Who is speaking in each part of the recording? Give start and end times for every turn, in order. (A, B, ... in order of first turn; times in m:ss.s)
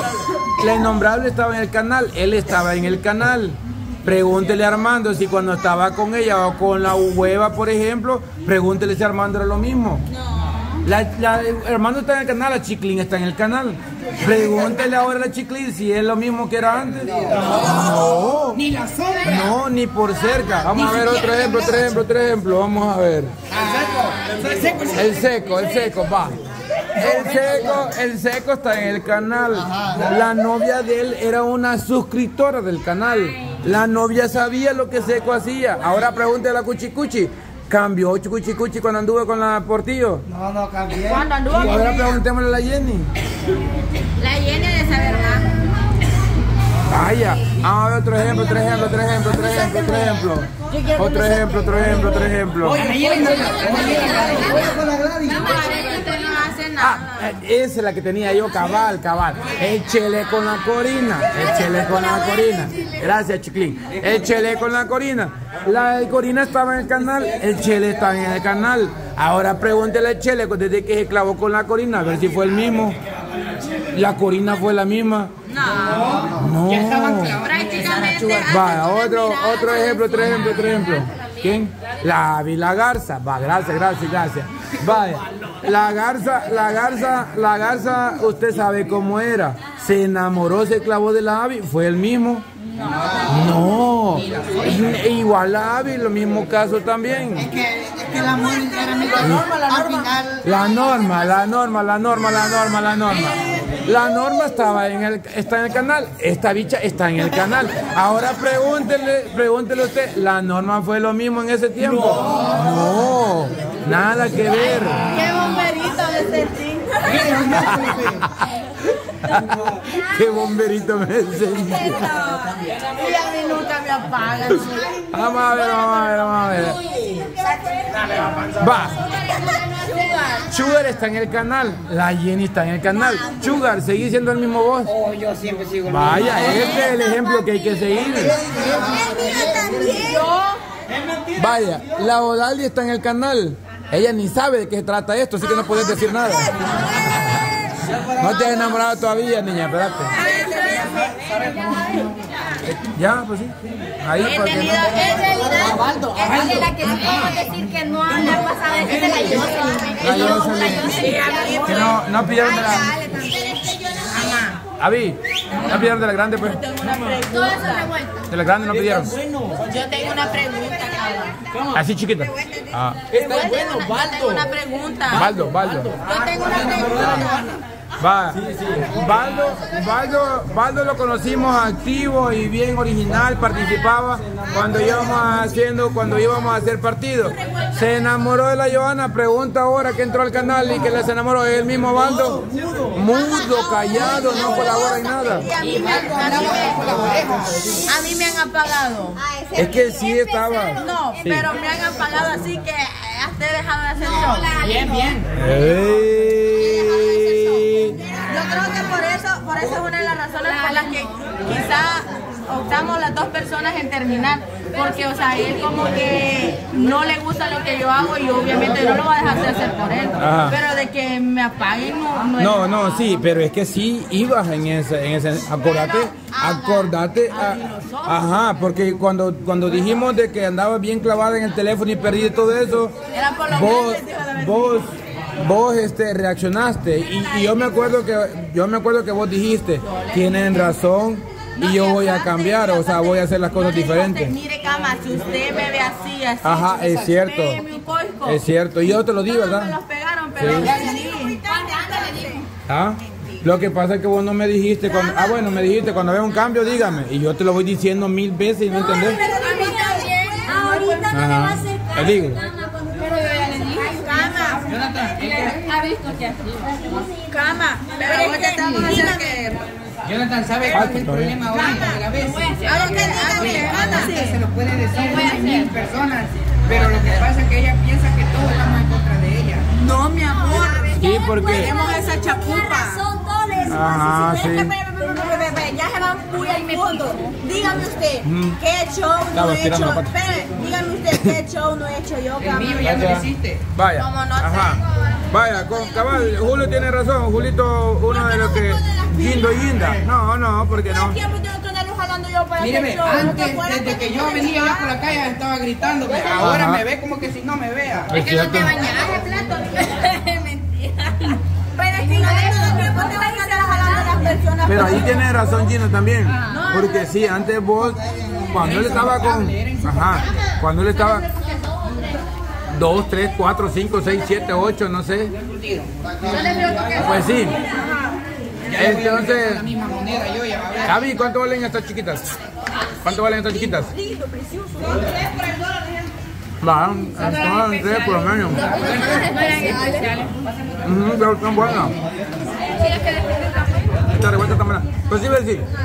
0:00.5-0:10.0 A
0:10.1-0:10.8 B
0:10.8-0:18.6 A
0:18.5-0:19.5 C
0:19.2-0:23.3 A
0:20.7-0:21.9 C
0:23.5-0:25.6 C
0:24.9-0:26.4 A
0:27.0-0:40.2 A
0:29.7-0:30.0 D
0:40.5-0:41.2 D
0:40.9-0:42.2 E
0:41.5-0:43.1 A
0:44.2-0:45.5 E
0:46.9-0:52.9 A
0:50.7-0:51.5 E
0:52.6-0:54.8 C
0:52.8-0:57.3 E
0:54.8-0:55.3 D
0:55.5-0:55.8 A
0:55.5-0:56.1 F
0:56.8-1:13.0 A
1:13.9-1:15.3 A
1:15.5-1:16.3 E
1:15.9-1:18.5 C
1:16.4-1:17.5 A
1:17.4-1:21.0 E
1:18.4-1:32.4 A
1:32.8-1:33.2 E
1:32.8-1:33.3 C
1:33.2-1:37.6 A
1:34.2-1:34.8 C
1:37.6-1:40.4 D
1:39.0-1:40.1 E
1:39.2-1:39.6 A
1:40.4-1:55.2 A
1:54.8-1:57.5 E
1:57.0-1:58.2 C
1:57.5-1:58.2 A
1:58.8-2:02.2 A
2:02.0-2:04.9 E
2:05.1-2:06.8 A
2:06.2-2:10.4 F
2:08.5-2:09.1 A
2:09.4-2:10.9 E
2:10.4-2:14.9 A
2:13.1-2:13.6 F
2:15.3-2:15.7 D
2:15.8-2:18.5 A
2:16.4-2:16.8 E
2:18.2-2:20.3 B
2:18.3-2:20.1 D
2:19.1-2:19.9 F
2:19.9-2:20.6 E
2:21.3-2:30.2 A
2:25.9-2:27.0 B
2:27.3-2:27.7 F
2:30.1-2:31.0 E
2:30.1-2:31.8 B
2:32.7-2:35.1 A
2:34.2-2:42.0 E
2:35.1-2:41.6 F
2:35.6-2:37.3 C
2:38.1-2:39.5 C
2:39.2-2:44.2 B
2:39.9-2:40.9 A
2:41.6-2:43.1 A
2:42.7-2:43.5 E
2:44.0-2:44.6 E
2:44.8-2:46.6 A
2:45.6-2:48.2 E
2:48.3-2:49.2 A
2:49.5-2:51.6 E
2:51.7-2:53.2 A
2:53.1-2:55.3 E
2:53.4-2:54.4 C
2:55.1-2:56.1 A
2:56.0-2:57.6 E
2:56.5-2:57.3 C
2:58.0-3:15.5 A
3:07.2-3:08.0 B
3:13.1-3:16.8 B
3:15.6-3:17.8 C
3:15.6-3:16.9 E
3:17.8-3:19.2 E
3:19.2-3:20.9 F
3:19.6-3:21.5 A
3:20.8-3:24.9 E
3:24.1-3:25.2 F
3:24.6-3:25.3 C
3:25.4-3:28.0 A
3:27.1-3:27.4 B
3:27.9-3:29.1 B
3:28.2-3:42.8 E
3:30.8-3:31.0 F
3:40.2-3:40.6 A
3:42.4-3:53.0 A
3:46.2-3:48.3 E
3:53.1-3:54.8 E
3:53.5-4:04.4 A
3:59.8-4:00.5 E
4:01.6-4:08.4 E
4:06.4-4:07.6 A
4:08.2-4:09.8 A
4:08.9-4:12.3 E
4:10.4-4:10.8 A
4:10.5-4:12.5 B
4:12.7-4:19.3 A
4:13.2-4:13.4 B
4:14.9-4:15.6 B
4:18.7-4:23.9 F
4:18.8-4:20.9 B
4:21.1-4:22.4 A
4:23.1-4:26.4 E
4:23.8-4:24.7 B
4:24.6-4:25.7 C
4:26.7-4:27.1 F
4:27.3-4:29.5 B
4:28.0-4:29.6 E
4:28.6-4:28.9 C
4:30.0-4:39.6 C
4:30.7-4:31.5 A
4:31.5-4:32.0 B
4:31.5-4:35.8 E
4:32.6-4:34.2 B
4:39.7-4:43.0 E
4:40.5-4:44.6 F
4:40.9-4:41.7 A
4:43.7-4:44.7 A
4:44.2-4:53.2 B
4:46.4-4:47.3 E
4:48.2-4:48.6 A
4:49.3-4:50.1 A
4:52.4-4:53.6 C
4:52.8-5:01.2 A
4:54.0-4:54.8 E
4:55.6-4:56.6 B
4:58.1-5:00.0 B
5:00.9-5:05.0 B
5:02.6-5:08.2 C
5:06.1-5:06.5 B
5:06.4-5:06.8 A
5:08.1-5:08.9 A
5:08.1-5:11.4 E
5:08.9-5:09.5 F
5:11.8-5:15.3 B
5:12.0-5:14.4 F
5:14.6-5:21.3 A
5:16.4-5:17.2 E
5:17.9-5:18.5 D
5:18.5-5:20.5 C
5:22.7-5:25.4 A
5:25.4-5:25.9 C
5:26.0-5:26.8 D
5:26.2-5:27.4 E
5:26.9-5:27.6 A
5:27.3-5:28.2 B
5:28.7-5:31.0 C
5:28.7-5:29.7 A
5:30.9-5:32.3 A
5:33.0-5:33.9 A
5:33.4-5:35.5 B
5:36.6-5:38.8 A
5:37.2-5:40.3 E
5:38.7-5:39.4 C
5:40.8-5:41.9 A
5:42.7-5:44.0 E
5:44.1-5:45.7 A